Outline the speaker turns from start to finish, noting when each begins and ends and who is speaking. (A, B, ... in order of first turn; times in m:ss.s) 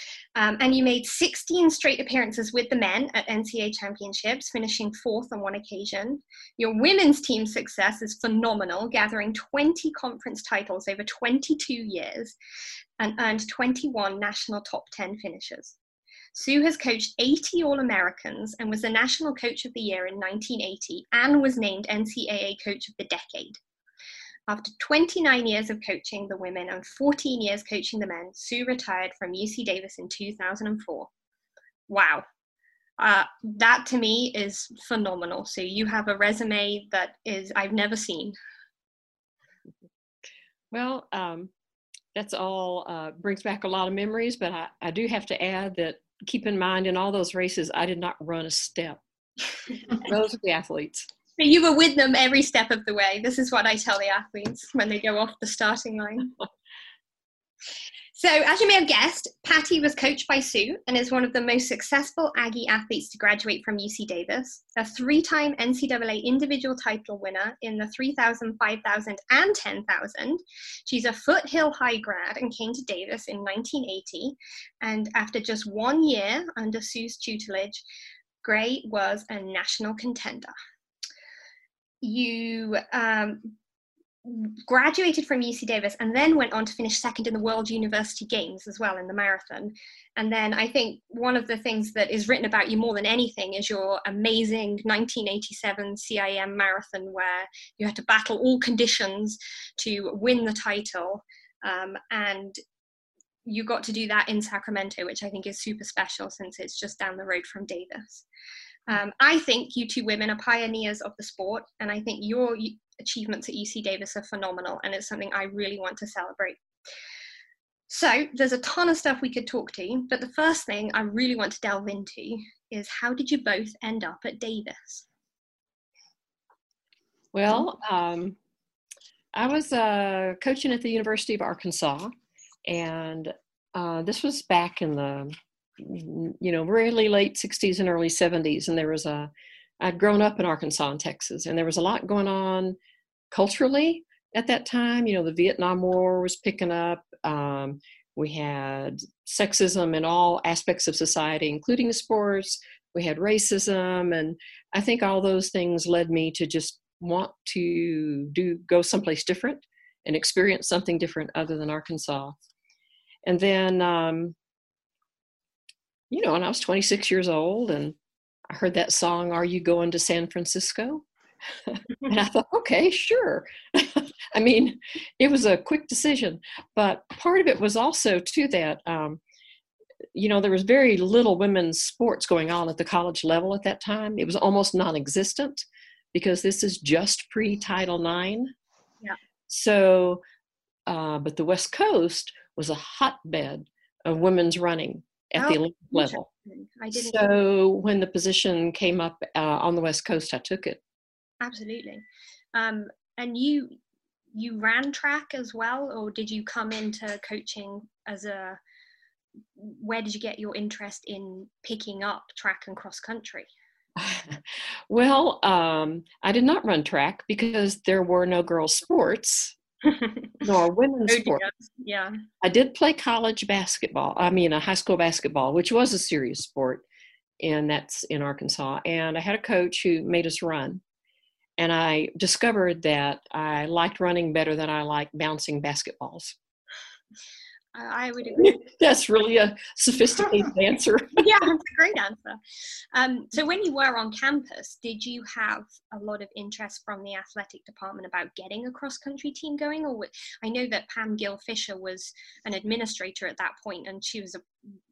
0:00.4-0:12.4 A
0:13.0-0:15.8 A
0:16.3-0:23.6 A
0:24.5-0:31.1 A
0:31.9-0:32.2 A
0:33.0-0:38.4 A
0:40.7-0:41.5 B
0:42.2-0:49.0 B
0:50.0-0:51.1 B
0:51.4-0:56.3 A
0:58.1-1:17.8 A
1:18.4-1:20.5 A
1:22.0-1:23.5 A
1:24.2-1:42.6 A
1:43.5-1:48.2 A
1:48.9-1:56.6 A
1:57.9-2:05.1 A
2:07.3-2:08.4 B
2:09.3-2:12.1 B
2:12.7-2:22.8 B
2:23.3-2:42.4 B
2:43.3-2:44.4 B
2:46.1-2:48.0 B
2:48.5-2:51.1 B
2:51.7-2:59.2 B
3:00.1-3:08.5 B
3:09.5-3:10.2 B
3:10.9-3:16.3 B
3:15.4-3:17.3 A
3:16.9-3:20.8 B
3:21.4-3:23.8 A
3:24.3-3:28.6 A
3:29.6-3:33.5 A
3:34.0-3:39.6 B
3:39.9-3:40.3 A
3:40.4-3:41.4 B
3:41.1-3:42.2 A
3:42.4-3:46.8 B
3:47.4-3:50.8 B
3:51.6-3:56.4 B
3:57.8-3:58.6 A
3:58.4-4:01.2 B
4:01.2-4:02.4 A
4:02.9-4:14.4 A